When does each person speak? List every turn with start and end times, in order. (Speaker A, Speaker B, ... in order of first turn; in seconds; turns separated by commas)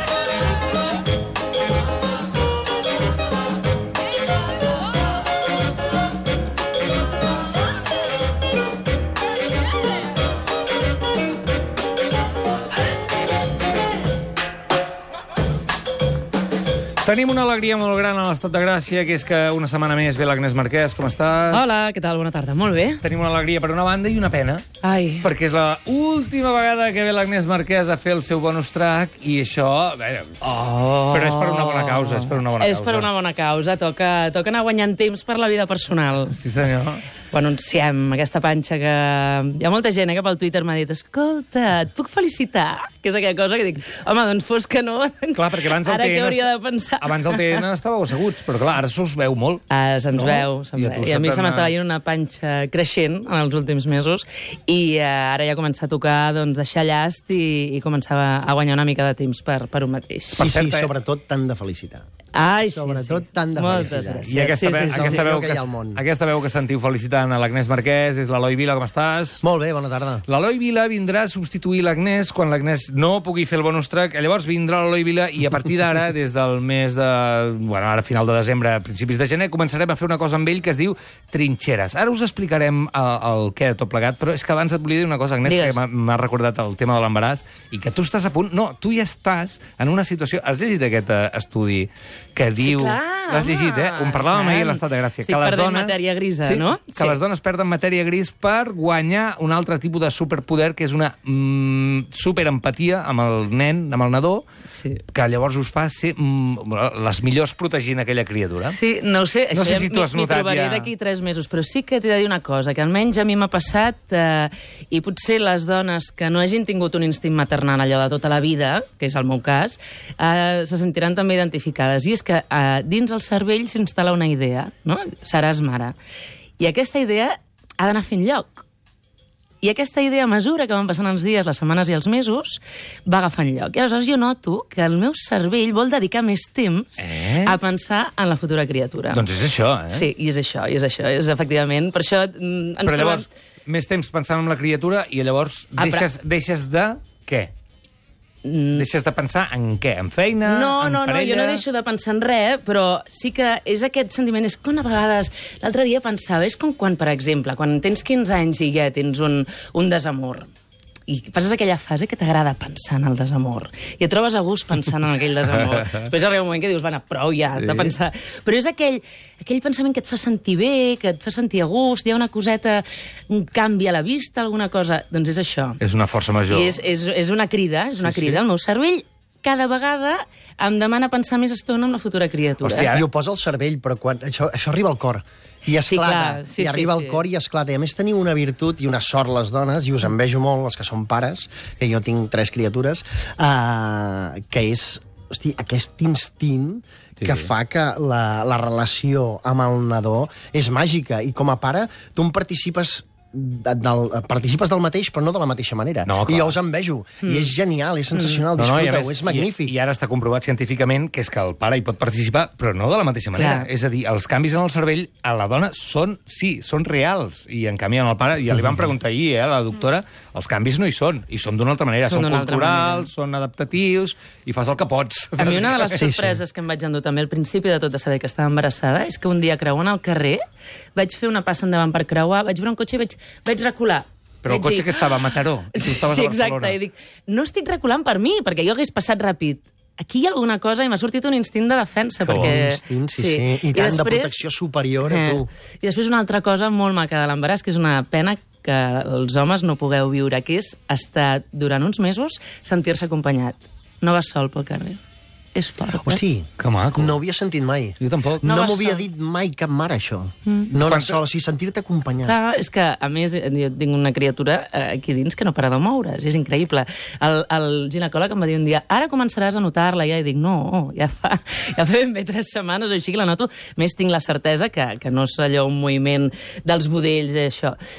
Speaker A: 17.0-21.7, Speaker B: 21.5-23.0, Speaker A: 23.0-24.6, Speaker B: 24.8-25.3, Speaker A: 25.2-33.1, Speaker B: 30.4-36.4, Speaker A: 36.3-37.1, Speaker B: 37.3-47.6, Speaker A: 45.3-49.6, Speaker B: 49.7-60.5, Speaker A: 50.1-51.7, Speaker A: 60.4-60.9, Speaker C: 60.4-62.1, Speaker B: 62.3-65.3, Speaker C: 62.6-64.3, Speaker A: 64.2-69.4, Speaker C: 64.9-66.0, Speaker C: 69.4-70.2, Speaker A: 70.3-104.4, Speaker B: 85.4-85.8, Speaker B: 92.6-97.2, Speaker B: 104.7-105.0, Speaker A: 105.1-108.8, Speaker B: 108.6-126.0, Speaker A: 109.5-110.9, Speaker B: 126.6-128.6, Speaker B: 129.6-139.2, Speaker A: 137.0-137.6, Speaker A: 139.1-140.1, Speaker B: 139.9-143.3, Speaker A: 142.8-147.5, Speaker B: 145.8-146.1, Speaker B: 148.4-148.9, Speaker A: 148.7-151.6, Speaker B: 150.4-160.5, Speaker B: 161.1-175.8, Speaker A: 167.6-167.9, Speaker A: 175.8-176.7, Speaker B: 176.5-182.9, Speaker A: 178.0-178.4, Speaker A: 182.6-183.1, Speaker C: 182.9-209.7, Speaker B: 185.8-187.2, Speaker A: 197.2-197.5, Speaker A: 206.1-206.6, Speaker B: 207.2-207.5, Speaker B: 208.1-208.4, Speaker A: 208.6-226.1, Speaker B: 213.3-213.7, Speaker B: 222.0-223.1, Speaker B: 225.4-230.4, Speaker C: 225.9-226.4, Speaker B: 230.9-235.1, Speaker A: 234.4-236.8, Speaker B: 235.7-244.4, Speaker A: 242.2-242.5, Speaker C: 242.3-245.5, Speaker B: 245.1-255.0, Speaker B: 255.5-256.2, Speaker C: 255.9-262.4, Speaker A: 256.6-257.2, Speaker A: 258.0-258.4, Speaker B: 258.4-259.1, Speaker B: 260.4-260.7, Speaker A: 260.8-261.2, Speaker B: 262.2-277.8